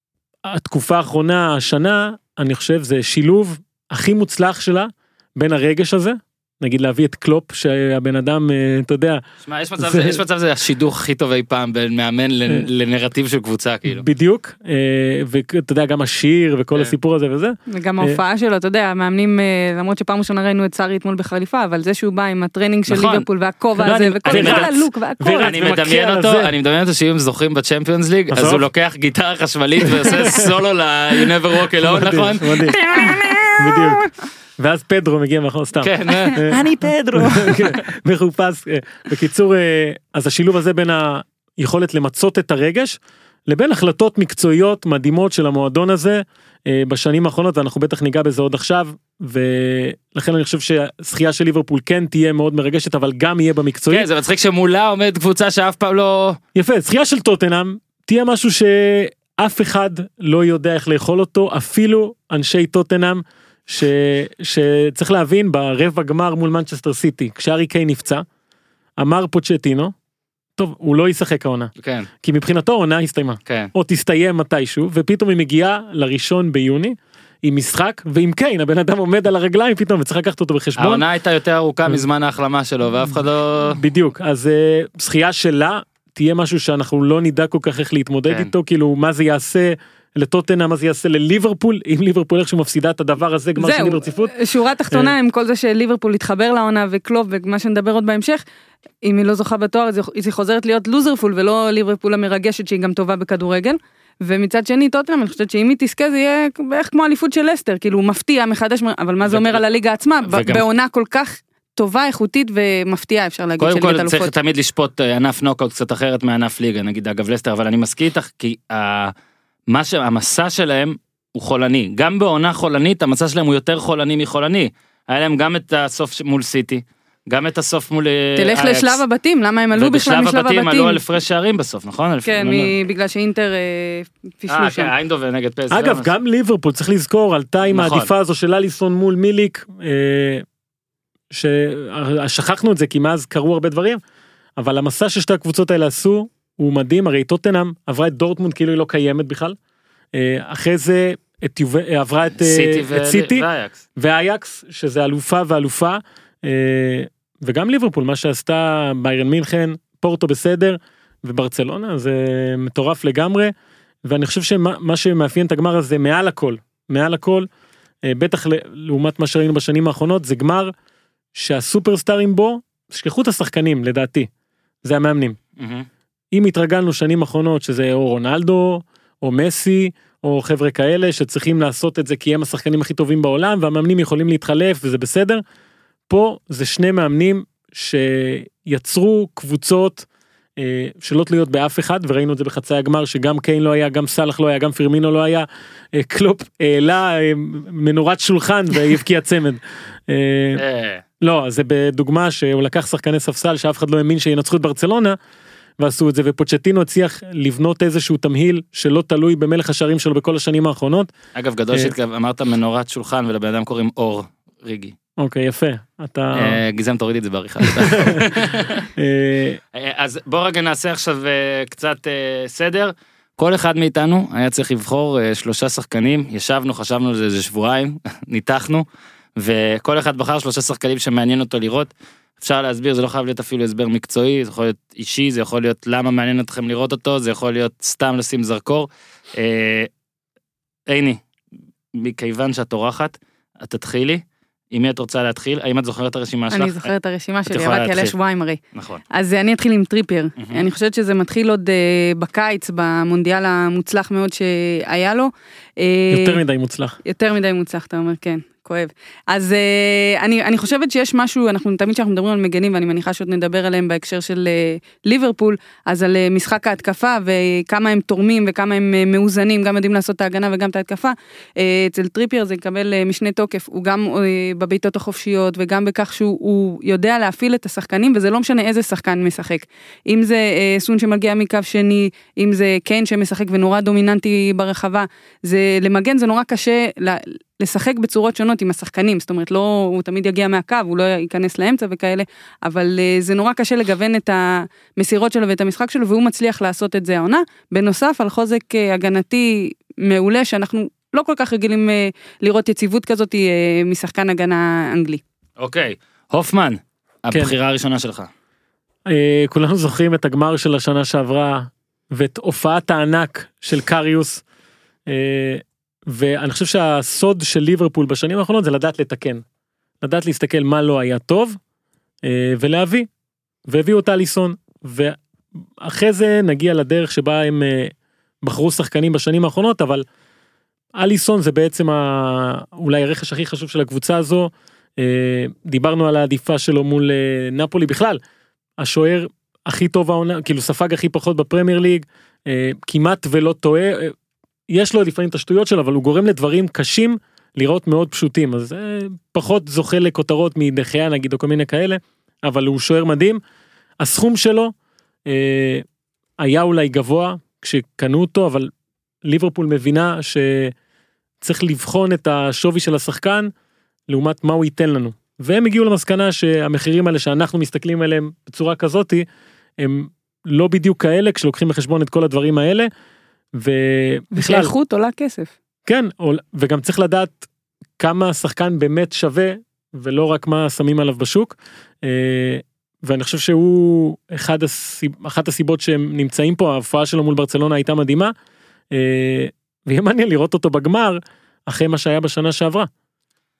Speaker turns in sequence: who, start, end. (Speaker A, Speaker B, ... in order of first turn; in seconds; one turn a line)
Speaker A: 0.4-9.2
Speaker B: 9.4-14.0
Speaker A: 9.8-10.2
Speaker A: 13.8-18.2
Speaker C: 17.7-25.6
Speaker B: 22.9-23.2
Speaker B: 23.8-24.7
Speaker A: 24.3-26.5
Speaker B: 25.4-33.8
Speaker A: 28.3-28.6
Speaker A: 29.8-30.5
Speaker A: 31.8-32.9
Speaker A: 33.5-34.1
Speaker A: 34.6-54.1
Speaker B: 35.8-37.4
Speaker C: 36.5-37.5
Speaker B: 53.9-56.4
Speaker A: 56.5-68.2
Speaker A: 69.0-69.9
Speaker A: 70.6-71.7
Speaker B: 71.8-72.1
Speaker A: 72.2-81.0
Speaker B: 73.5-73.7
Speaker B: 80.8-83.8
Speaker A: 83.8-94.3
Speaker C: 93.6-98.4
Speaker C: 99.0-114.3
Speaker B: 109.2-109.6
Speaker B: 110.2-110.6
Speaker B: 113.6-119.1
Speaker B: 119.7-129.0
Speaker C: 128.4-131.0
Speaker B: 129.8-132.7
Speaker C: 132.2-134.9
Speaker B: 134.5-136.1
Speaker A: 135.7-140.4
Speaker B: 137.7-138.1
Speaker A: 141.3-144.0
Speaker A: 144.6-149.6
Speaker A: 150.1-153.4
Speaker B: 152.4-153.8
Speaker A: 153.9-163.5
Speaker A: 164.0-167.5
Speaker A: 168.0-170.7
Speaker A: 171.3-174.3
Speaker A: 174.8-175.4
Speaker B: 175.6-175.8
Speaker A: 176.3-185.4
Speaker A: 186.1-190.1
Speaker A: 190.6-200.6
Speaker B: 200.6-201.0
Speaker A: 201.2-205.2
Speaker A: 205.8-211.1
Speaker B: 211.3-214.9
Speaker A: 215.2-216.6
Speaker B: 216.3-218.8
Speaker A: 217.6-218.4
Speaker A: 218.9-219.6
Speaker B: 219.7-228.8
Speaker B: 229.4-239.9
Speaker B: 240.9-241.2
Speaker B: 241.9-246.9
Speaker C: 246.5-248.6
Speaker B: 247.5-248.1
Speaker B: 248.7-249.0
Speaker C: 249.1-256.4
Speaker B: 250.4-250.7
Speaker A: 256.1-257.0
Speaker C: 257.0-305.2
Speaker B: 305.6-308.3
Speaker A: 309.1-314.4
Speaker A: 315.1-319.4
Speaker A: 320.0-321.6
Speaker A: 322.2-323.1
Speaker A: 323.7-325.2
Speaker A: 325.8-330.0
Speaker A: 330.9-338.2
Speaker A: 338.8-344.1
Speaker A: 344.7-353.4
Speaker A: 354.0-354.7
Speaker A: 355.3-355.8
Speaker A: 356.4-358.7
Speaker A: 359.2-360.7
Speaker A: 361.4-363.5
Speaker A: 364.1-369.2
Speaker A: 369.8-372.9
Speaker A: 373.6-374.7
Speaker C: 374.4-375.5
Speaker A: 375.9-377.4
Speaker A: 378.0-388.3
Speaker A: 388.9-392.9